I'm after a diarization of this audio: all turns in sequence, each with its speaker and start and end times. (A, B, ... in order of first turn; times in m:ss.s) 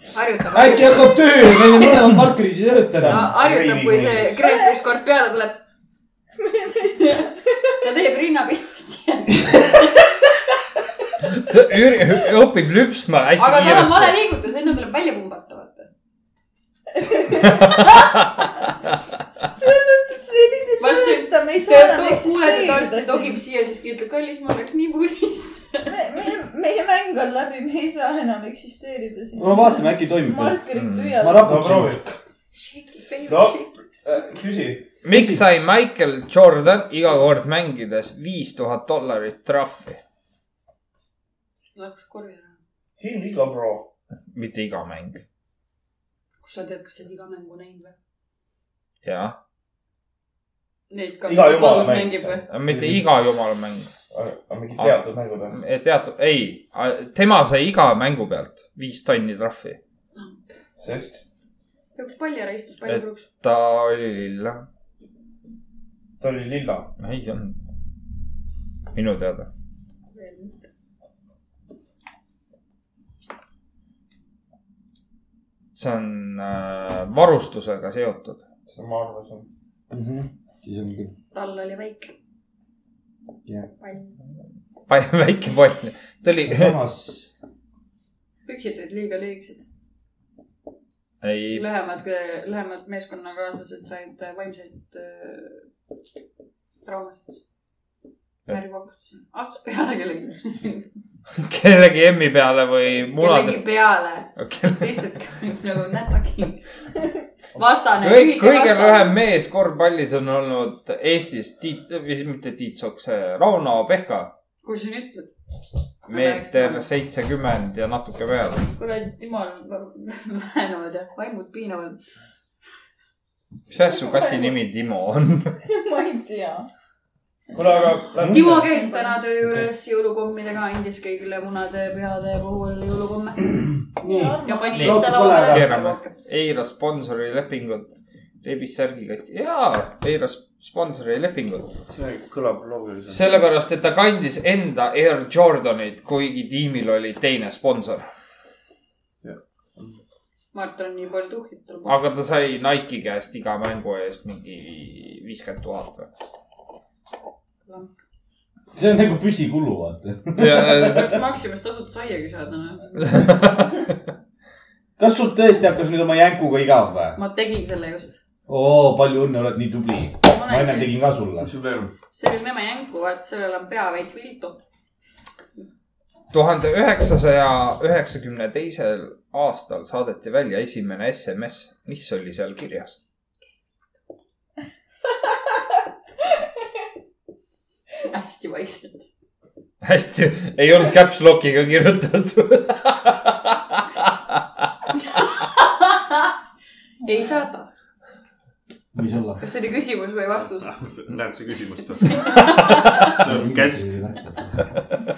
0:00.1-0:01.9 A
0:00.5-0:03.3 B
0:03.0-0:04.4 C
0:03.0-0:05.6 A
0:04.4-0:04.8 D
0:06.4-0:07.2 D
0:07.0-0:10.1 A
0:11.3-0:14.2 E
0:13.4-0:15.9 A
0:17.1-0:17.6 D
0:17.4-0:17.7 E
0:17.7-0:18.2 A
0:19.6-0:23.4 D
0:20.8-0:26.0 A
0:25.9-0:31.6 D
0:29.4-0:30.6 B
0:30.7-0:31.2 E
0:31.2-0:32.2 B
0:31.4-0:32.1 C
0:32.5-0:33.7 A
0:33.3-0:34.9 C
0:35.0-0:40.0 E
0:35.1-0:35.4 B
0:41.7-0:42.6 A
0:43.0-0:43.9 C
0:44.3-0:45.2 E
0:46.4-0:48.0 A
0:49.0-0:49.4 E
0:50.9-0:52.4 A
0:51.3-0:52.4 C
0:52.5-0:53.9 E
0:52.7-0:53.0 B
0:54.1-0:55.6 C
0:55.5-0:59.8 E
1:00.8-1:01.2 C
1:02.0-1:03.3 A
1:02.9-1:04.6 E
1:06.2-1:06.9 C
1:07.0-1:07.6 E
1:08.9-1:09.5 E
1:10.1-1:10.6 A
1:15.8-1:18.4 E
1:18.7-1:19.5 C
1:19.9-1:21.1 B
1:21.3-1:22.1 A
1:23.8-1:24.1 A
1:24.9-1:26.7 E
1:26.4-1:27.3 B
1:28.4-1:29.6 A
1:31.2-1:31.6 E
1:31.5-1:35.6 A
1:36.8-1:37.4 A
1:38.5-1:40.8 A
1:41.4-1:43.6 E
1:43.1-1:46.6 A
1:44.4-1:45.0 E
1:47.6-1:49.1 A
1:48.0-1:54.3 E
1:54.6-1:55.3 A
1:56.0-1:56.9 A
1:56.1-1:58.7 E
1:58.6-2:02.0 A
2:03.7-2:05.6 E
2:04.2-2:04.4 D
2:05.6-2:06.7 D
2:07.5-2:08.7 C
2:08.2-2:08.5 B
2:08.3-2:13.6 A
2:08.6-2:09.2 D
2:13.9-2:15.7 B
2:14.0-2:15.0 D
2:14.4-2:16.1 A
2:14.7-2:21.7 E
2:21.9-2:23.2 C
2:23.1-2:28.1 E
2:29.2-2:30.0 C
2:30.5-2:32.0 A
2:31.9-2:36.1 E
2:37.6-2:37.9 A
2:38.7-2:41.1 B
2:40.4-2:41.0 E
2:40.5-2:43.5 A
2:43.0-2:43.7 E
2:45.0-2:47.2 B
2:47.2-2:48.2 A
2:48.5-2:51.5 B
2:50.3-2:50.9 A
2:51.4-2:51.9 C
2:52.1-2:54.6 A
2:56.3-3:03.0 E
3:08.0-3:09.1 A
3:09.8-3:14.7 E
3:15.0-3:16.3 A
3:17.0-3:17.7 A
3:17.1-3:17.4 D
3:18.9-3:19.4 B
3:19.4-3:20.7 A
3:20.4-3:23.9 C
3:22.0-3:23.1 A
3:23.0-3:24.8 B